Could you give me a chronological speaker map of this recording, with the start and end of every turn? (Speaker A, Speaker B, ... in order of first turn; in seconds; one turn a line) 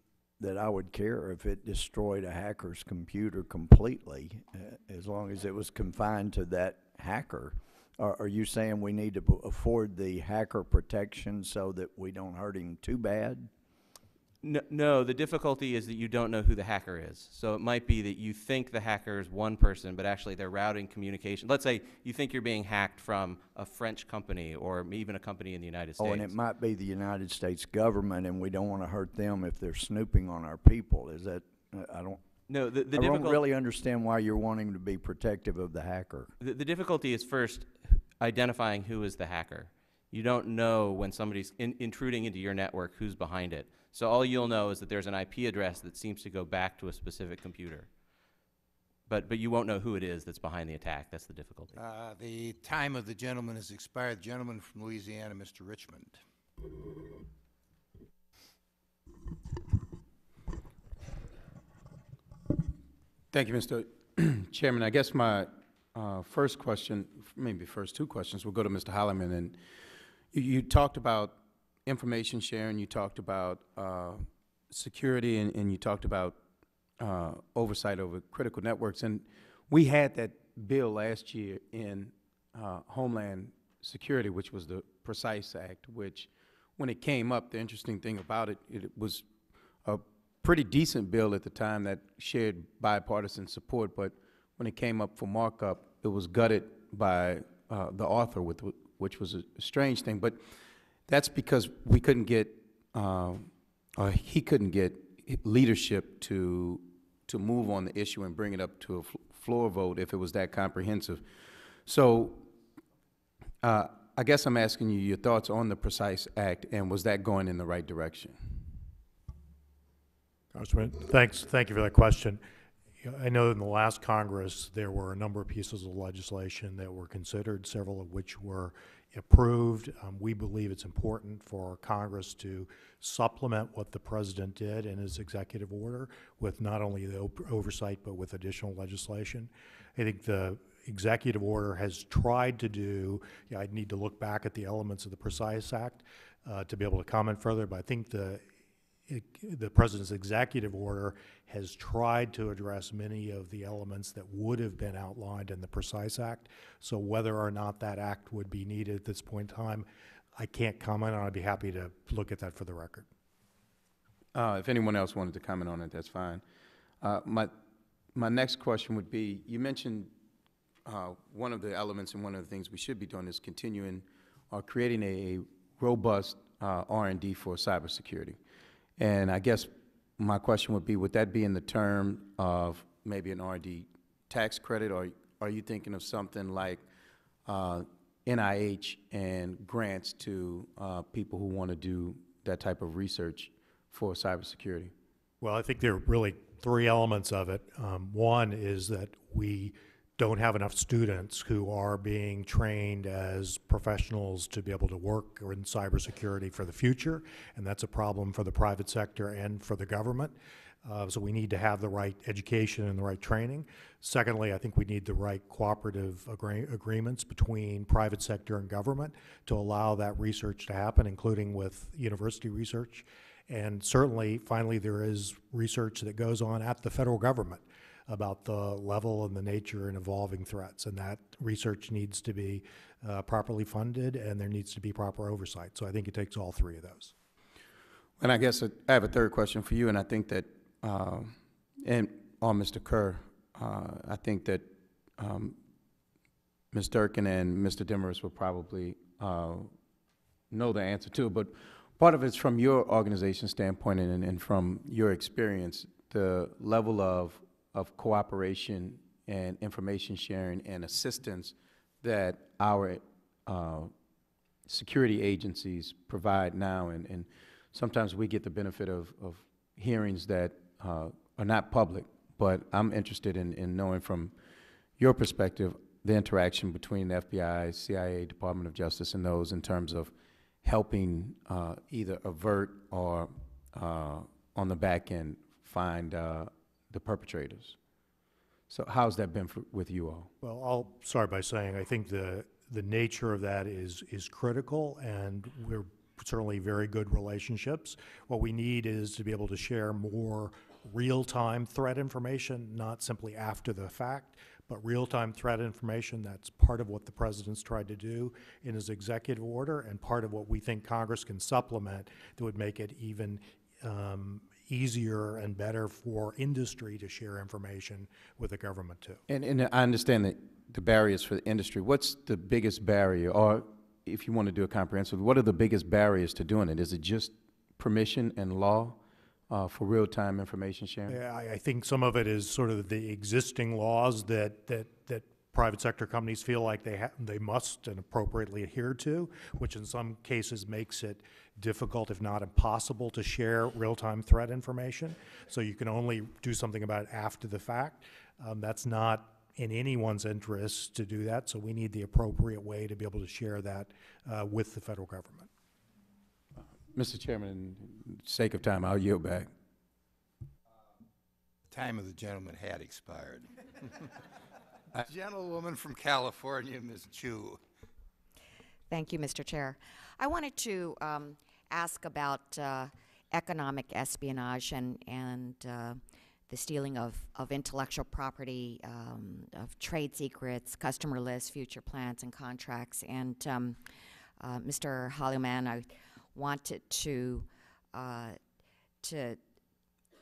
Speaker A: 0.4-13.5
Speaker B: 14.4-26.3
Speaker A: 26.0-32.2
Speaker B: 32.5-33.4
Speaker A: 32.9-36.3
Speaker B: 36.4-47.9
Speaker B: 49.1-51.8
Speaker C: 51.8-56.2
Speaker D: 63.3-76.4
Speaker D: 77.0-89.3
Speaker D: 89.8-112.5
Speaker D: 113.6-118.8
Speaker E: 120.5-122.4
Speaker E: 123.0-148.4
Speaker E: 149.1-163.1
Speaker D: 164.3-166.4
Speaker D: 167.0-167.6
Speaker D: 168.1-170.1
Speaker D: 170.8-178.4
Speaker D: 179.0-186.8
Speaker D: 187.4-194.9
Speaker E: 195.4-237.1
Speaker D: 238.2-245.6
Speaker D: 246.7-249.7
Speaker D: 250.5-263.9
Speaker D: 264.6-274.4
Speaker D: 275.0-287.8
Speaker D: 288.7-290.3
Speaker E: 290.4-319.2
Speaker D: 319.3-331.2
Speaker E: 331.1-355.5
Speaker D: 356.6-359.5
Speaker C: 361.7-364.1
Speaker C: 364.9-367.6
Speaker F: 368.9-383.8
Speaker F: 384.4-388.4
Speaker F: 389.0-389.4